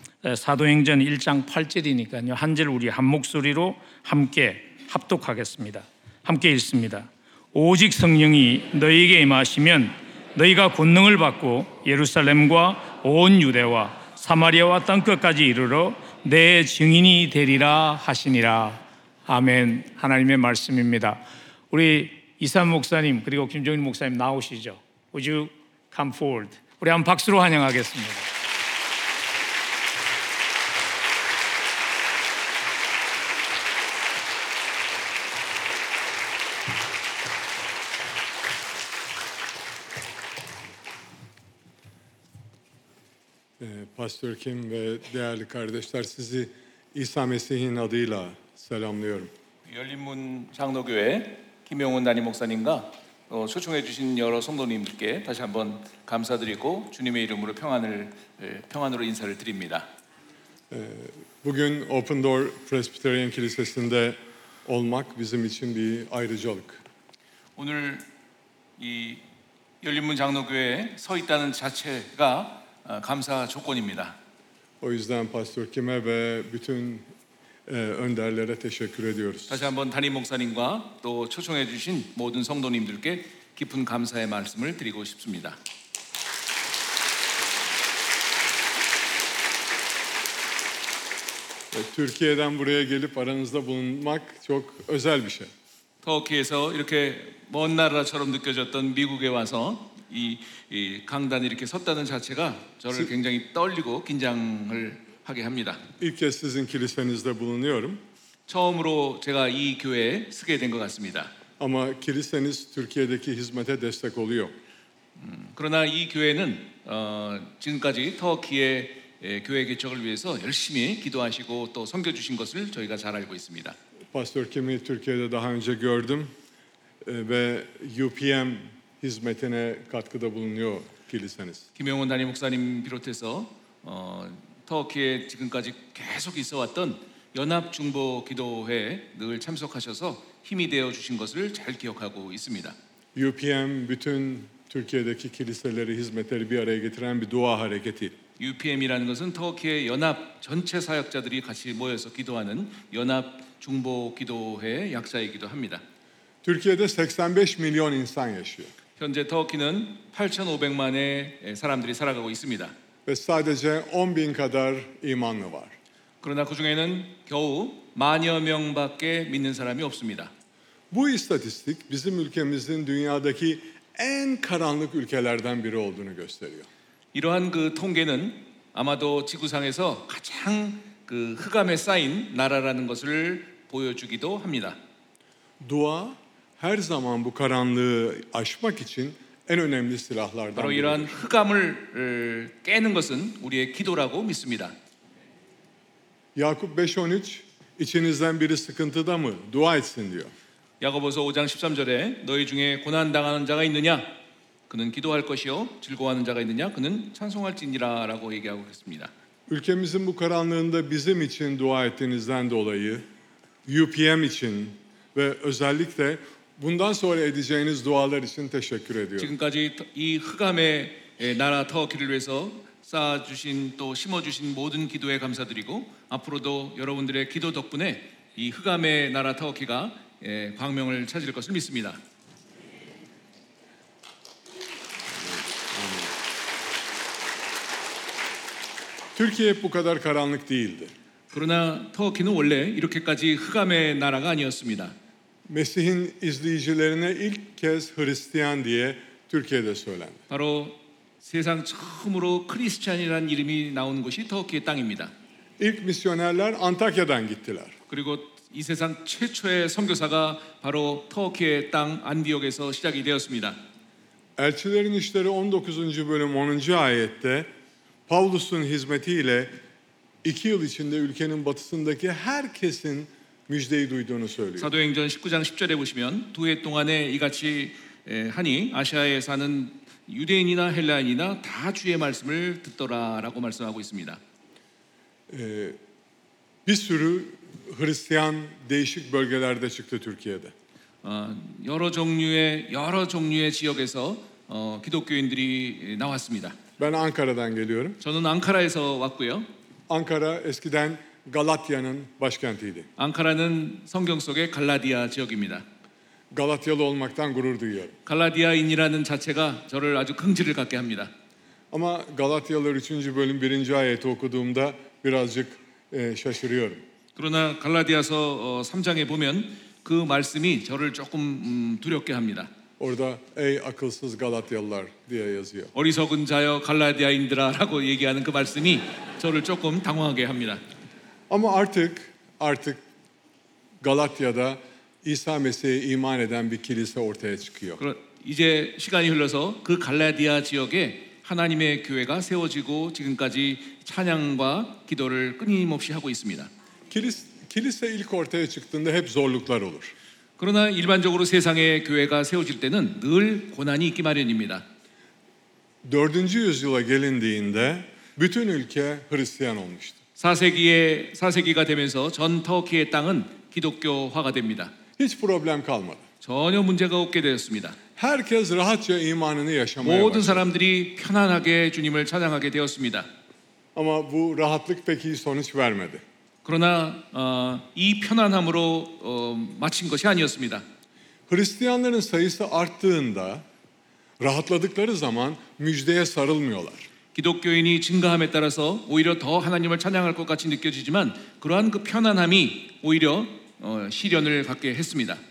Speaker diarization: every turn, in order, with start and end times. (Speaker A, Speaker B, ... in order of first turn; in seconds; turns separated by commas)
Speaker A: 0.2-28.3, Speaker B: 43.6-49.3, Speaker C: 49.7-59.9, Speaker B: 60.7-66.8, Speaker C: 67.5-68.0, Speaker C: 68.8-69.2, Speaker C: 69.8-74.2, Speaker B: 74.8-77.1, Speaker B: 77.7-79.7, Speaker C: 79.5-85.6, Speaker B: 91.7-95.5, Speaker C: 96.0-105.8, Speaker B: 106.0-108.0, Speaker C: 108.5-111.3, Speaker B: 111.6-114.5, Speaker C: 115.2-123.8, Speaker B: 124.1-126.3, Speaker B: 127.0-131.7, Speaker C: 131.8-142.8, Speaker B: 143.1-148.2, Speaker C: 148.4-155.8, Speaker B: 156.4-158.7, Speaker C: 159.0-162.7, Speaker B: 163.1-165.7, Speaker C: 166.2-170.3, Speaker B: 170.9-176.7, Speaker C: 177.1-184.8, Speaker B: 185.6-191.2, Speaker C: 190.5-194.7, Speaker B: 196.3-200.3, Speaker C: 200.8-204.1, Speaker C: 204.7-209.1, Speaker B: 209.5-213.1, Speaker B: 213.7-219.3, Speaker C: 219.2-232.0, Speaker B: 235.1-236.1, Speaker B: 239.1-240.9, Speaker C: 241.3-244.9, Speaker B: 245.5-250.2, Speaker C: 250.3-255.1, Speaker B: 255.6-257.7, Speaker C: 257.9-263.6, Speaker B: 264.4-267.5, Speaker B: 268.1-269.5, Speaker B: 270.2-274.7, Speaker C: 274.6-284.2, Speaker B: 285.3-285.8, Speaker B: 286.6-290.5, Speaker C: 291.0-296.6, Speaker B: 296.8-298.0, Speaker C: 298.0-299.5, Speaker B: 299.9-302.9, Speaker C: 303.0-305.6, Speaker B: 306.3-307.9, Speaker C: 308.0-311.1, Speaker B: 311.7-316.8, Speaker C: 317.1-322.5, Speaker B: 322.8-325.7, Speaker C: 325.7-330.6, Speaker B: 331.3-332.8, Speaker B: 333.8-337.8, Speaker C: 337.8-346.5, Speaker B: 346.9-349.9, Speaker C: 350.4-354.6, Speaker B: 355.8-360.0, Speaker C: 360.2-364.7, Speaker B: 365.0-366.0, Speaker C: 366.2-367.8, Speaker B: 368.0-370.4, Speaker C: 369.8-373.1, Speaker B: 373.7-376.0, Speaker C: 376.4-380.6, Speaker B: 381.3-383.4, Speaker B: 384.2-386.9, Speaker C: 387.1-395.2